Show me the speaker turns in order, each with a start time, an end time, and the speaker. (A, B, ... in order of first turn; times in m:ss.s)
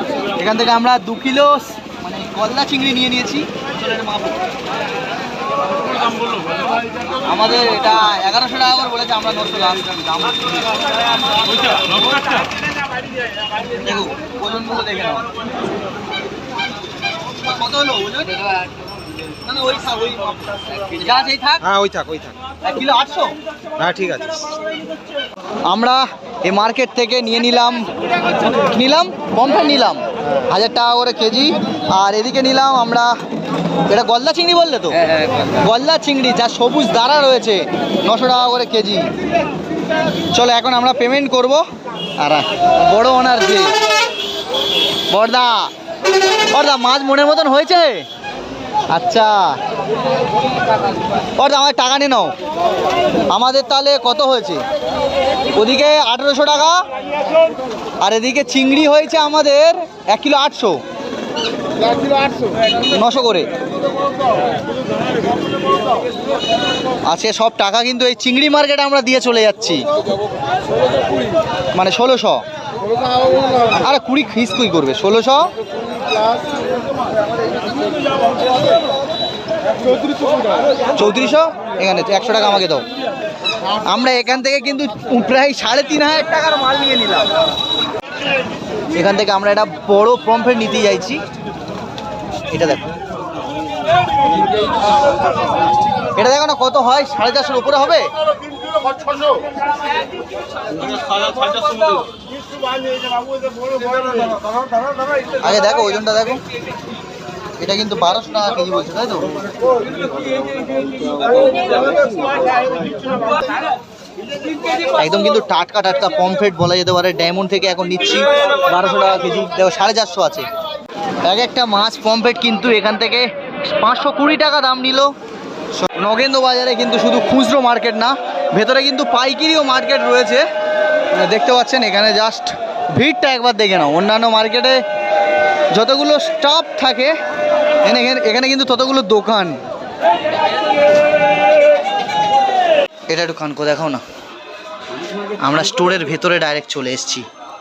0:00.4-0:04.4 A
0:07.2-0:10.8 A
0:13.8-0:15.2 A
0:17.4-0:18.7 A
0:19.4-0:21.6 A
0:21.6-0:22.4 B
0:22.6-0:23.3 A
0:23.8-0:24.4 B
0:25.6-0:27.9 A
0:28.4-0:33.1 A
0:33.9-0:39.1 A
0:40.3-0:41.6 A
0:42.2-0:43.7 A
0:45.1-0:45.7 A
0:46.5-0:48.0 A
0:48.9-0:49.5 A
0:51.4-0:52.3 A
0:53.3-0:54.6 A
0:55.5-0:56.8 A
0:58.0-1:00.8 A
1:02.9-1:03.5 A
1:07.0-1:09.8 A
1:11.7-1:12.4 A
1:13.8-1:15.5 A
1:20.9-1:22.8 A
1:23.8-1:27.3 A
1:28.9-1:31.2 A
1:32.5-1:32.8 A
1:36.2-1:38.1 A
1:40.9-1:42.0 B
1:45.4-1:46.4 A
1:47.6-1:49.4 A
1:51.5-1:52.0 B
1:55.0-2:00.4 A
2:01.2-2:05.1 A
2:05.8-2:10.4 A
2:11.1-2:14.8 A
2:15.7-2:17.1 A
2:17.8-2:19.6 A
2:23.1-2:24.0 A
2:25.3-2:27.2 A